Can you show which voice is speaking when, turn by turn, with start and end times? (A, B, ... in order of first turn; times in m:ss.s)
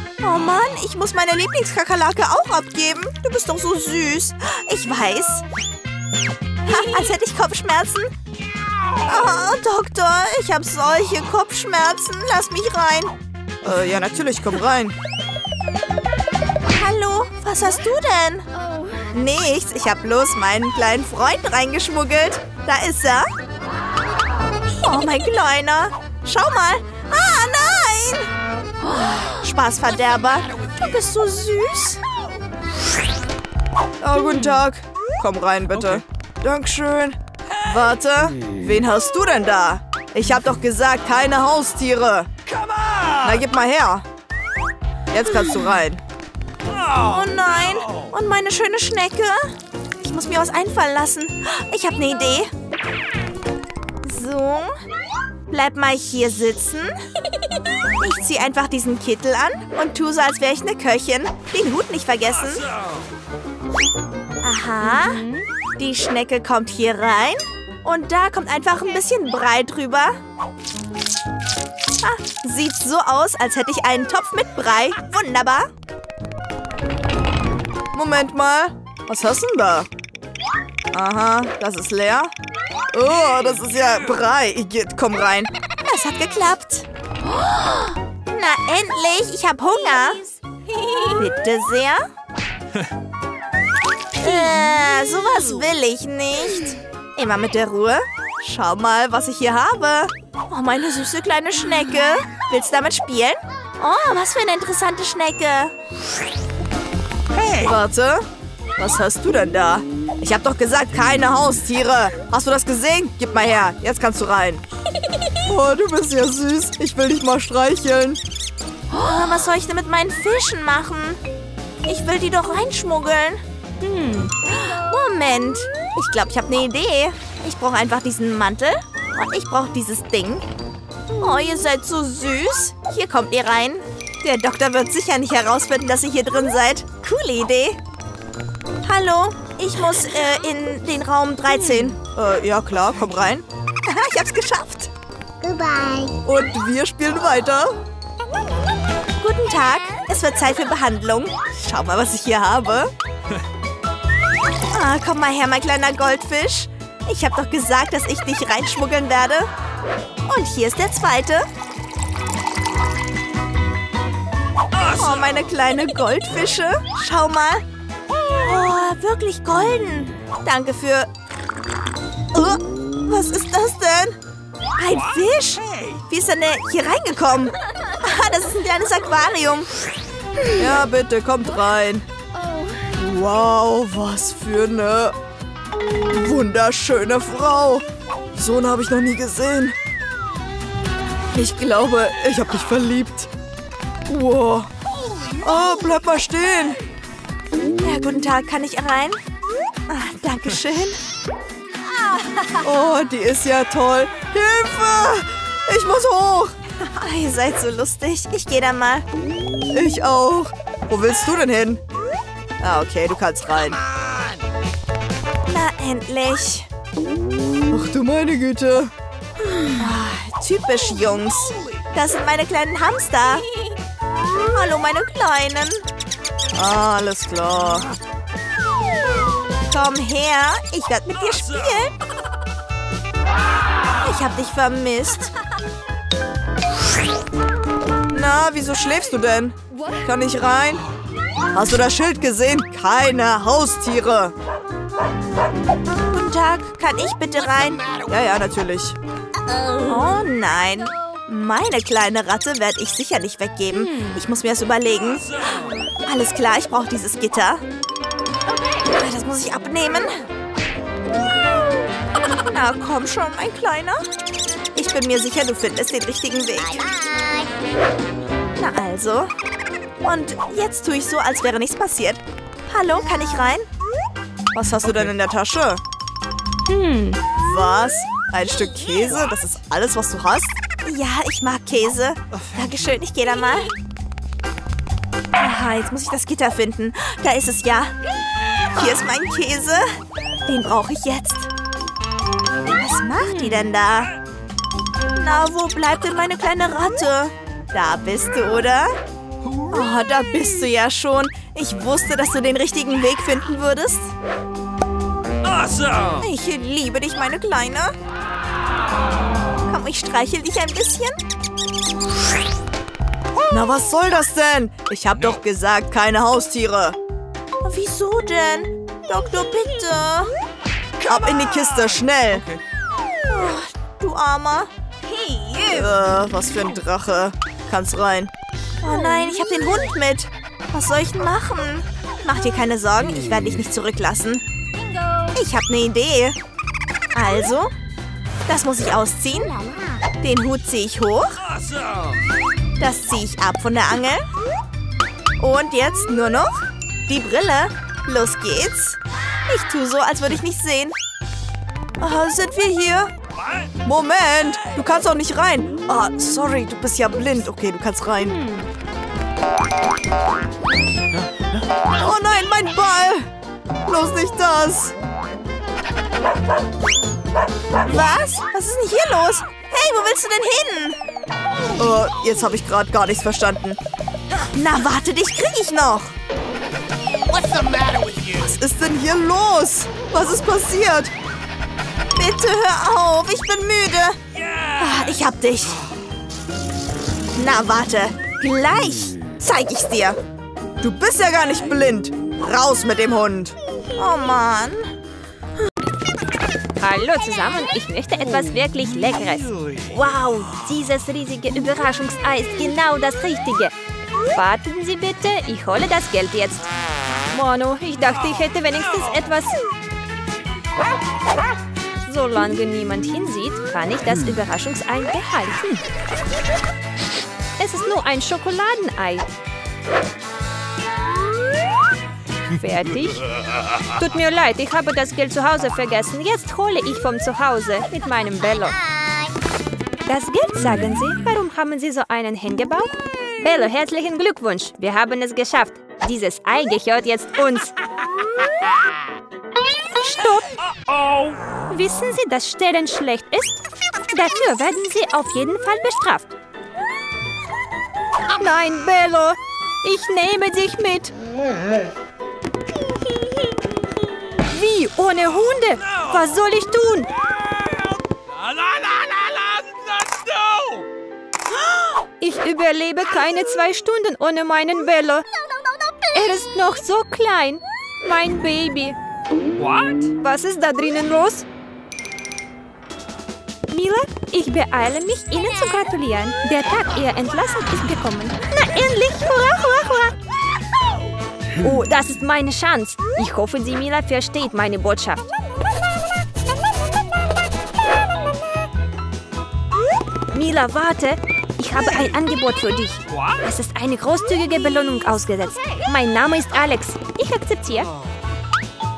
0:00.2-0:05.4 A
0:06.6-0:08.1 A
0:09.0-0:13.1 A
0:13.6-0:14.9 B
0:16.7-0:19.3 A
0:19.1-0:21.1 B
0:19.8-0:23.2 A
0:24.8-0:28.3 A
0:28.9-0:32.0 A
0:34.0-0:42.3 B
0:35.8-0:36.0 C
0:42.7-0:43.1 C
0:43.2-0:44.0 B
0:45.1-0:46.0 B
0:47.0-0:52.5 A
0:54.0-0:54.7 A
0:55.5-0:57.0 A
0:58.0-1:02.7 A
1:04.4-1:05.3 A
1:05.8-1:10.2 A
1:12.0-1:15.7 A
1:17.9-1:19.9 B
1:20.9-1:22.3 B
1:22.9-1:25.5 B
1:25.8-1:26.8 A
1:28.3-1:30.4 A
1:30.9-1:32.1 A
1:34.1-1:45.7 A
1:47.4-1:48.3 B
1:48.8-1:54.6 B
1:55.4-1:58.2 B
1:58.9-2:01.2 A
2:01.8-2:10.4 A
2:11.1-2:17.8 A
2:18.8-2:22.0 A
2:22.0-2:23.4 B
2:23.8-2:24.9 A
2:25.4-2:26.2 A
2:26.2-2:27.8 B
2:29.2-2:32.9 A
2:34.7-2:39.5 A
2:40.2-2:41.4 A
2:44.8-2:47.6 A
2:48.3-2:51.1 A
2:52.3-2:54.2 A
2:54.8-2:59.7 A
3:00.5-3:02.0 B
3:02.9-3:05.2 B
3:06.1-3:07.8 B
3:08.4-3:09.8 B
3:11.3-3:13.3 B
3:14.1-3:14.7 B
3:15.4-3:16.8 B
3:17.8-3:19.2 A
3:19.9-3:21.0 A
3:22.5-3:26.5 B
3:27.0-3:29.0 A
3:29.7-3:31.8 B
3:32.6-3:33.8 B
3:35.5-3:36.7 A
3:37.7-3:38.9 B
3:39.8-3:43.5 A
3:44.5-3:45.8 A
3:46.5-3:48.0 B
3:49.7-3:52.0 A
3:54.0-3:55.4 A
3:58.1-4:00.8 B
4:01.5-4:04.3 B
4:06.1-4:08.0 A
4:08.1-4:09.0 B
4:09.8-4:17.6 A
4:19.0-4:20.1 A
4:22.4-4:24.0 A
4:24.7-4:26.9 A
4:28.6-4:29.3 A
4:30.0-4:33.6 A
4:34.5-4:35.8 B
4:37.4-4:40.6 B
4:40.8-4:43.7 A
4:45.4-4:47.9 A
4:48.7-4:49.9 A
4:50.4-4:51.5 A
4:52.7-4:54.1 A
4:55.2-4:59.0 A
4:59.7-5:04.1 A
5:05.4-5:06.2 C
5:06.2-5:07.9 A
5:09.7-5:11.2 A
5:13.5-5:17.0 B
5:17.6-5:20.3 A
5:21.0-5:22.4 B
5:22.3-5:22.6 C
5:23.3-5:23.7 A
5:24.0-5:24.7 B
5:25.2-5:25.6 A
5:25.6-5:28.3 B
5:28.8-5:34.4 A
5:35.3-5:36.4 A
5:37.1-5:37.7 A
5:38.5-5:41.4 A
5:42.8-5:44.2 A
5:45.4-5:50.9 A
5:52.0-5:53.1 A
5:53.8-5:58.5 B
6:02.0-6:03.3 B
6:03.8-6:04.9 B
6:07.8-6:11.0 A
6:11.8-6:13.8 B
6:14.5-6:16.1 A
6:18.4-6:21.1 B
6:22.2-6:23.8 A
6:23.8-6:24.2 B
6:24.8-6:25.8 A
6:27.4-6:30.2 A
6:30.8-6:33.6 B
6:34.0-6:34.9 A
6:36.8-6:43.7 D
6:44.3-6:46.7 D
6:47.3-6:49.6 D
6:52.0-6:55.8 D
6:57.6-6:59.3 D
7:02.5-7:03.2 D
7:04.0-7:08.8 D
7:10.1-7:17.7 D
7:20.0-7:20.5 D
7:20.9-7:21.4 C
7:21.7-7:26.3 D
7:28.3-7:31.1 D
7:34.5-7:37.1 D
7:42.2-7:45.3 D
7:46.1-7:49.0 D
7:49.6-7:50.1 C
7:50.2-7:51.4 D
7:53.7-8:00.1 D
8:01.6-8:05.3 D
8:10.3-8:17.9 D